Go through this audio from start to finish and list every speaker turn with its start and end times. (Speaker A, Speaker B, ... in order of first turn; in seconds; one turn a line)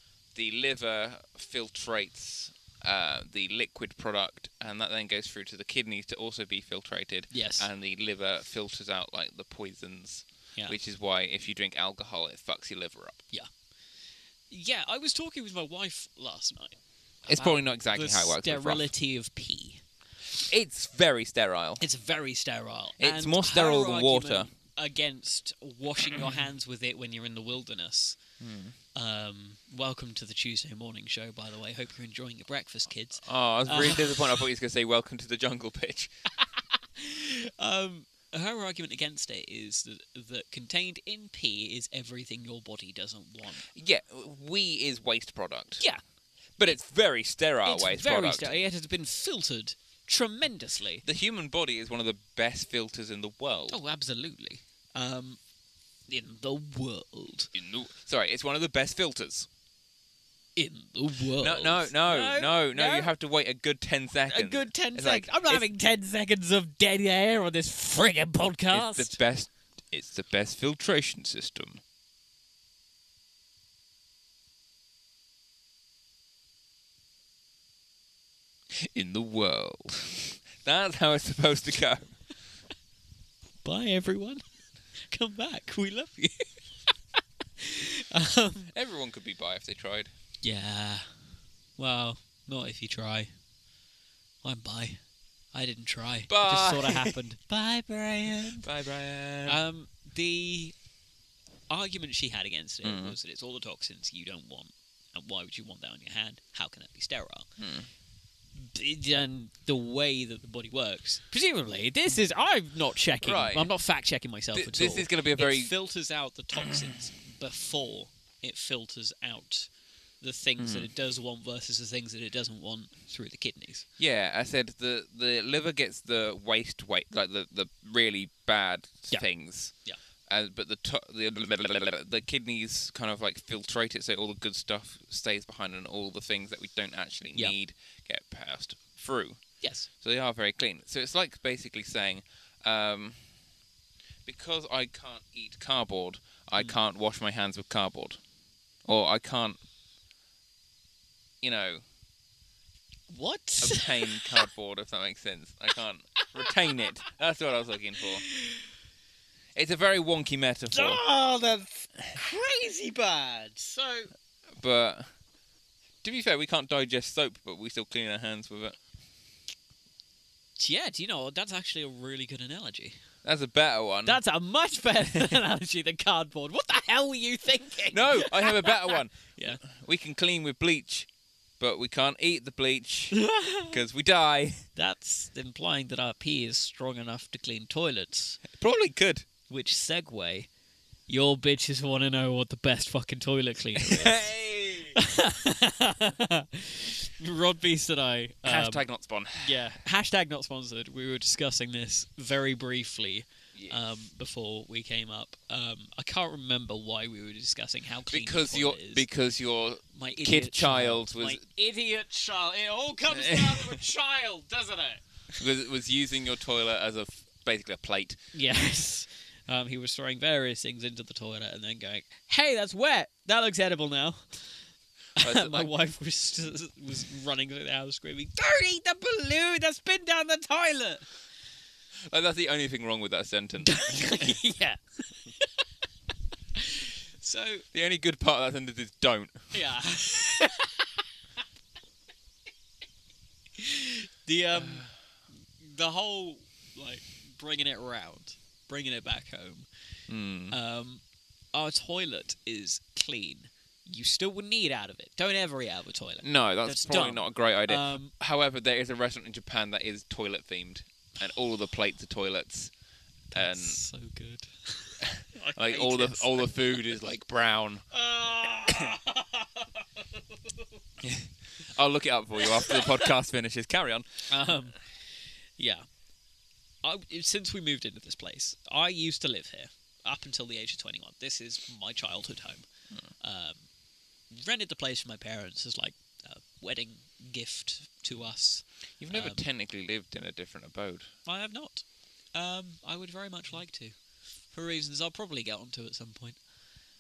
Speaker A: 0.3-13.2
Speaker B: 7.3-7.7
Speaker B: 14.5-19.8
Speaker A: 17.3-18.9
Speaker A: 20.4-21.8
Speaker B: 21.8-28.2
Speaker A: 23.0-24.5
Speaker A: 28.4-28.8
Speaker B: 28.9-34.5
Speaker A: 33.2-36.1
Speaker B: 36.4-43.7
Speaker A: 43.7-45.8
Speaker A: 46.6-48.6
Speaker B: 47.6-51.0
Speaker A: 51.0-53.8
Speaker B: 53.7-55.4
Speaker B: 56.1-57.5
Speaker A: 57.5-59.5
Speaker B: 60.6-63.1
Speaker A: 61.4-65.7
Speaker B: 64.3-69.2
Speaker A: 68.7-71.8
Speaker A: 78.7-82.1
Speaker B: 83.6-84.4
Speaker B: 85.0-86.5
Speaker B: 87.6-88.7
Speaker A: 88.7-90.1
Speaker B: 90.4-91.1
Speaker B: 91.8-93.3
Speaker B: 94.4-95.0
Speaker B: 95.5-98.7
Speaker A: 96.3-97.2
Speaker A: 98.3-99.6
Speaker B: 99.5-100.7
Speaker B: 101.7-107.5
Speaker A: 102.8-103.2
Speaker A: 107.6-107.9
Speaker B: 108.5-119.7
Speaker A: 113.2-113.7
Speaker A: 114.5-115.7
Speaker A: 116.6-116.9
Speaker B: 120.2-123.9
Speaker A: 120.6-120.9
Speaker A: 124.0-129.7
Speaker A: 130.3-139.4
Speaker B: 139.6-139.9
Speaker A: 140.0-143.2
Speaker A: 144.2-148.2
Speaker A: 148.9-149.6
Speaker A: 151.4-151.8
Speaker B: 153.1-154.5
Speaker A: 153.6-158.2
Speaker B: 156.2-156.5
Speaker B: 158.1-158.7
Speaker A: 159.6-161.0
Speaker B: 160.7-164.1
Speaker A: 164.6-165.1
Speaker A: 166.0-168.8
Speaker B: 170.6-173.0
Speaker A: 173.2-174.2
Speaker B: 174.1-179.6
Speaker A: 177.9-181.1
Speaker A: 181.6-184.7
Speaker B: 183.1-183.8
Speaker B: 184.8-188.4
Speaker A: 188.5-189.3
Speaker B: 189.5-190.5
Speaker B: 191.1-194.3
Speaker A: 193.8-195.0
Speaker B: 194.9-198.8
Speaker A: 198.4-199.6
Speaker B: 199.4-209.1
Speaker A: 203.6-203.8
Speaker A: 208.1-211.4
Speaker B: 209.9-215.0
Speaker A: 213.1-213.8
Speaker A: 215.4-218.2
Speaker B: 218.3-224.5
Speaker B: 225.2-231.1
Speaker A: 225.2-225.7
Speaker A: 232.1-234.4
Speaker B: 233.6-235.5
Speaker B: 236.6-237.7
Speaker A: 237.7-239.5
Speaker B: 239.5-241.0
Speaker B: 243.6-244.9
Speaker A: 244.6-244.9
Speaker B: 245.6-249.7
Speaker A: 250.1-250.6
Speaker B: 250.5-251.0
Speaker B: 251.5-258.1
Speaker A: 256.2-262.7
Speaker B: 263.3-266.7
Speaker A: 263.3-263.8
Speaker A: 265.0-267.8
Speaker B: 267.9-270.6
Speaker A: 271.0-274.1
Speaker B: 272.4-273.1
Speaker B: 274.3-274.8
Speaker B: 275.6-275.9
Speaker B: 276.8-282.7
Speaker B: 283.2-283.6
Speaker B: 284.3-289.4
Speaker A: 289.0-291.1
Speaker B: 291.3-291.8
Speaker B: 292.4-293.9
Speaker B: 294.5-296.4